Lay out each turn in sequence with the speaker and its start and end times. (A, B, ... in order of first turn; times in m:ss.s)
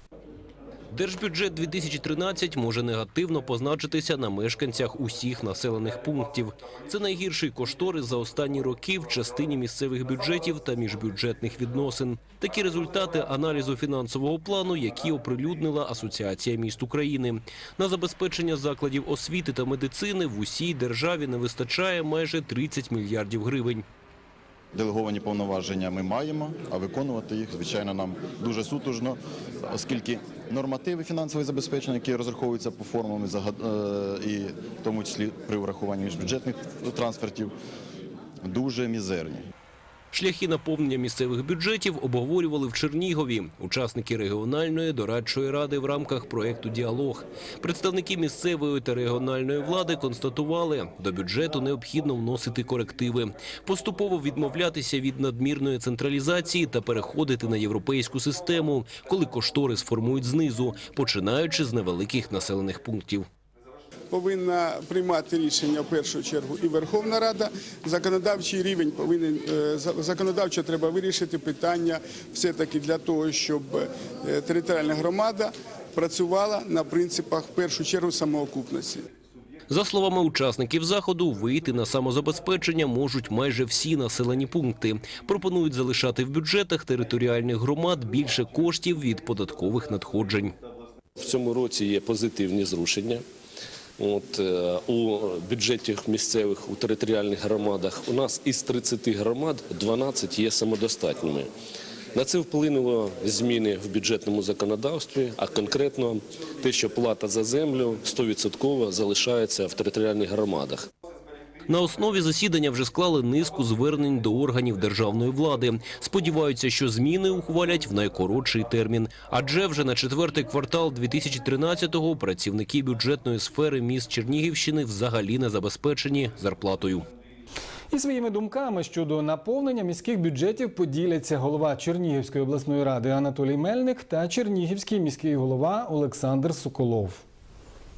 0:00.9-0:23.8 A
0:24.7-0:37.5 B
0:38.4-0:39.4 B
0:40.1-1:03.3 A
1:04.1-1:19.0 C
1:19.7-1:30.5 A
1:31.2-1:33.1 D
1:34.0-1:41.3 D
1:42.2-1:46.1 D
1:46.6-1:50.7 D
1:51.7-2:07.0 A
2:07.9-2:17.2 E